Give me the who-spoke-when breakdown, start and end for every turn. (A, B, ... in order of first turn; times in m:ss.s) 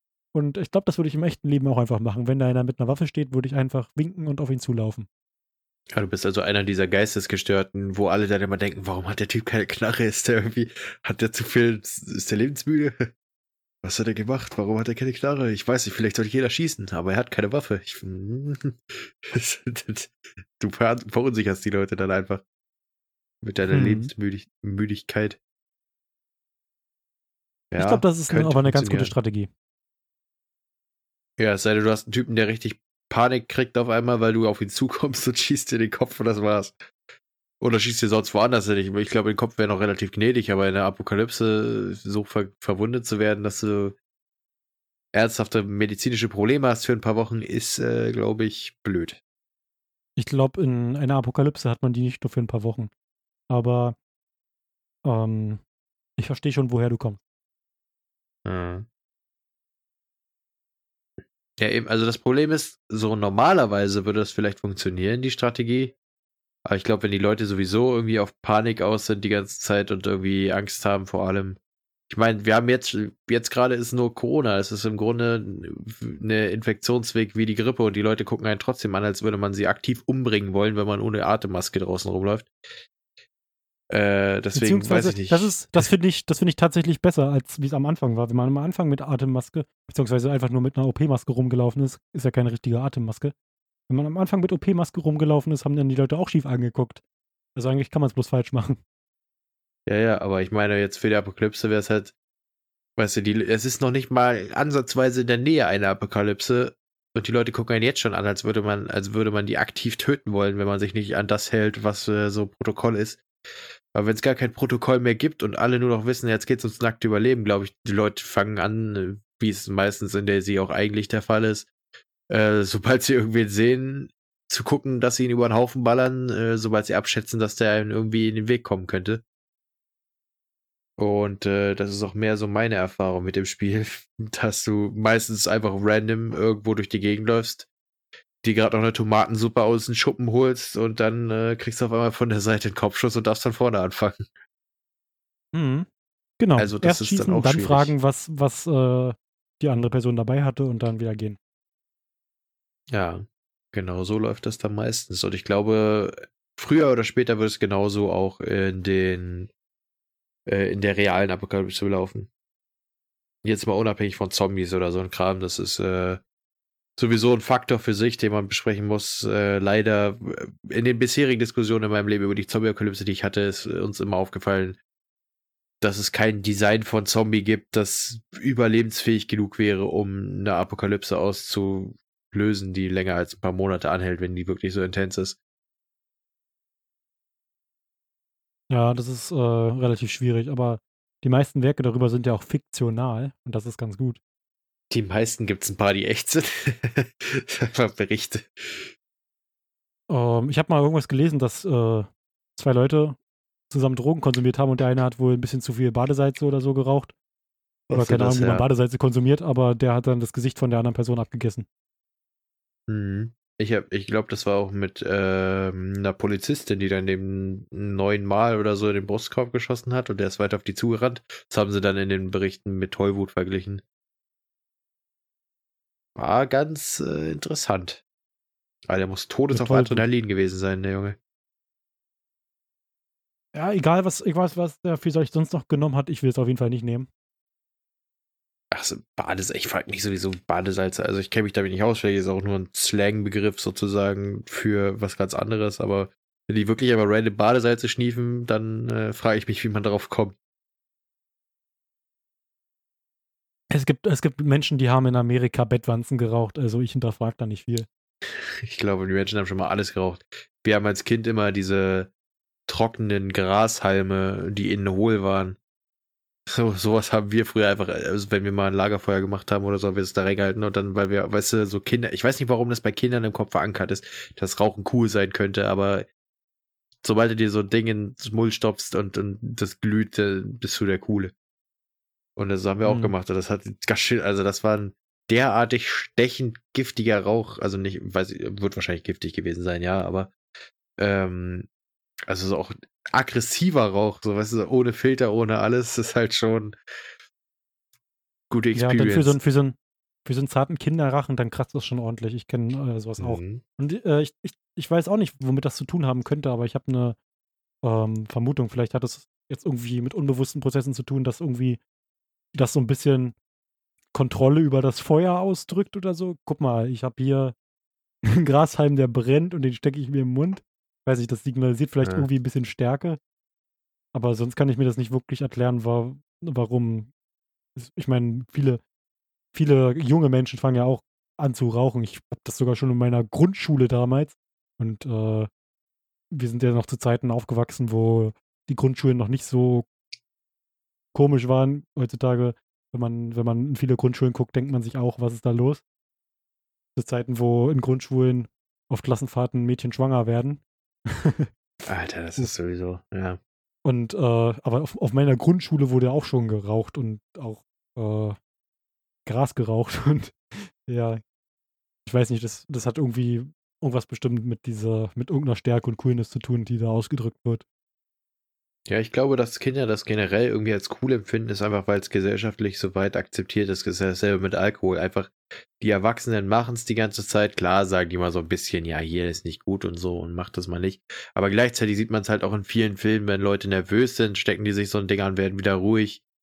0:00.3-0:05.1 A
0:05.9-0:13.1 B
0:13.8-0:22.4 B
0:23.4-0:25.4 B
0:23.7-0:24.1 A
0:27.7-0:29.1 B
0:27.8-0:29.5 A
0:31.4-0:36.8 B
0:37.6-0:44.0 B
0:45.1-0:49.2 B
0:50.2-0:52.9 A
0:53.5-0:54.0 A
0:55.0-0:55.6 A
0:56.2-0:57.2 A
0:58.4-0:58.9 B
1:01.6-1:05.9 B
1:06.6-1:11.6 B
1:12.1-1:22.5 B
1:23.9-1:25.8 B
1:24.5-1:33.3 A
1:33.9-1:37.0 A
1:37.6-1:38.8 A
1:39.9-1:42.1 B
1:43.0-1:53.2 B
1:53.9-2:01.7 B
2:02.3-2:09.2 B
2:11.0-2:17.7 B
2:18.4-2:24.3 B
2:25.5-2:25.9 A
2:26.4-2:31.4 A
2:26.6-2:27.9 B
2:32.9-2:39.5 B
2:40.5-2:42.3 B
2:43.4-2:46.2 B
2:47.0-2:54.8 B
2:55.8-3:05.4 B
3:08.7-3:14.2 A
3:14.9-3:18.9 B
3:20.1-3:23.2 A
3:23.7-3:27.1 A
3:27.9-3:28.6 B
3:27.9-3:31.6 A
3:32.9-3:43.8 B
3:46.2-3:48.0 B
3:48.9-3:51.2 B
3:49.5-3:50.0 A
3:53.5-3:57.1 A
3:58.7-4:10.4 B
4:13.7-4:17.9 A
4:18.6-4:22.1 B
4:22.7-4:25.6 B
4:26.5-4:36.1 B
4:37.0-4:41.3 B
4:42.4-4:50.3 B
4:42.8-4:43.1 A
4:51.0-4:51.7 B
4:52.3-4:56.7 B
4:58.5-4:59.4 B
4:58.8-5:07.2 A
5:03.2-5:03.6 B
5:07.8-5:11.8 A
5:12.5-5:13.3 A
5:14.1-5:17.5 A
5:18.2-5:23.2 A
5:22.0-5:22.3 B
5:24.1-5:27.1 A
5:27.8-5:28.8 A
5:29.5-5:35.5 A
5:36.3-5:39.8 A
5:41.1-5:45.8 A
5:47.0-5:51.5 A
5:51.8-5:53.4 B
5:53.8-5:58.4 A
5:59.2-6:01.2 A
6:02.0-6:07.6 A
6:08.9-6:26.2 B